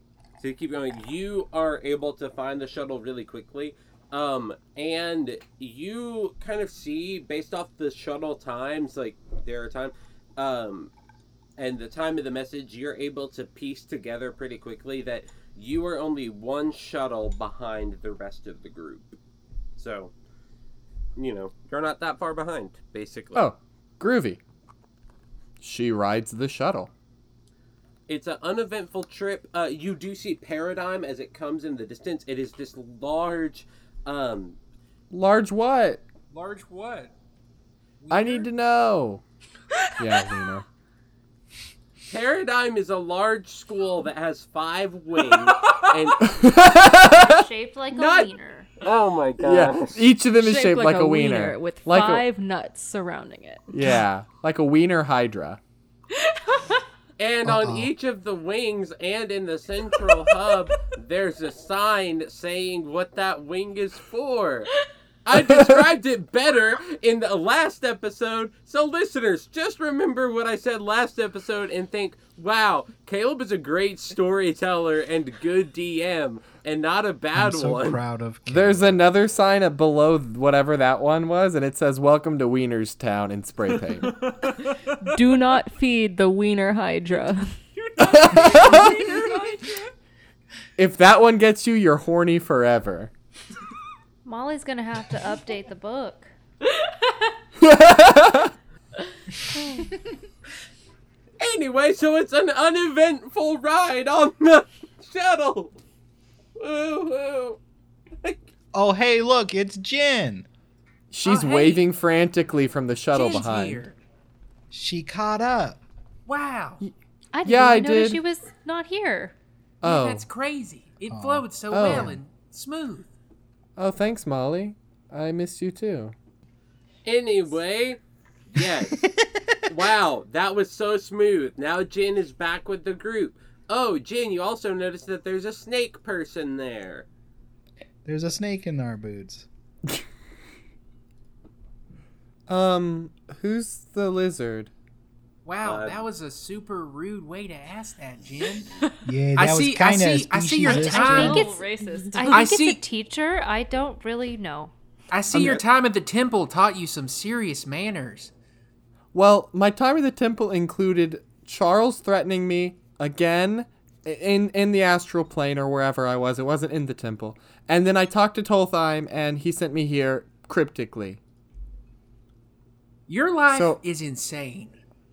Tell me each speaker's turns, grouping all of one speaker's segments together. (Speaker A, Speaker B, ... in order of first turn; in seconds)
Speaker A: 0.4-10.9, 11.6-19.1, 19.8-20.1, 21.1-23.5, 28.1-34.6, 42.1-46.3, 47.9-50.1, 57.2-64.7, 65.2-78.0, 101.4-105.8, 106.6-107.6, 127.0-128.0, 128.5-129.1, 129.6-137.1, 145.6-146.0, 155.3-155.6
Speaker B: 23.3-24.4, 25.6-26.9, 35.1-36.0, 38.1-39.2, 40.0-40.6, 46.2-47.4, 49.4-52.2, 53.7-55.6, 65.3-65.8, 78.5-84.1, 88.1-89.0, 90.8-93.1, 97.6-98.5, 111.1-113.8, 117.4-118.2, 119.8-120.3, 121.7-122.1, 123.8-126.1, 142.5-144.7, 159.1-171.2, 173.5-173.8
Speaker C: 36.3-37.1, 38.0-38.5, 45.4-45.9, 84.0-85.1, 87.8-89.9, 111.2-111.8, 113.1-114.0, 116.3-116.8, 119.8-123.1, 145.4-148.7, 149.3-151.4, 152.3-152.8, 155.1-158.3, 173.1-174.8
Speaker D: 46.8-48.7, 94.2-96.3, 117.3-119.3, 150.6-154.7
Speaker E: 50.3-53.7, 56.3-56.7, 85.0-87.6, 150.9-152.5
Speaker F: 57.4-57.9, 77.3-79.0, 108.7-110.5, 114.7-115.8, 121.1-122.2, 138.0-139.5, 149.1-151.4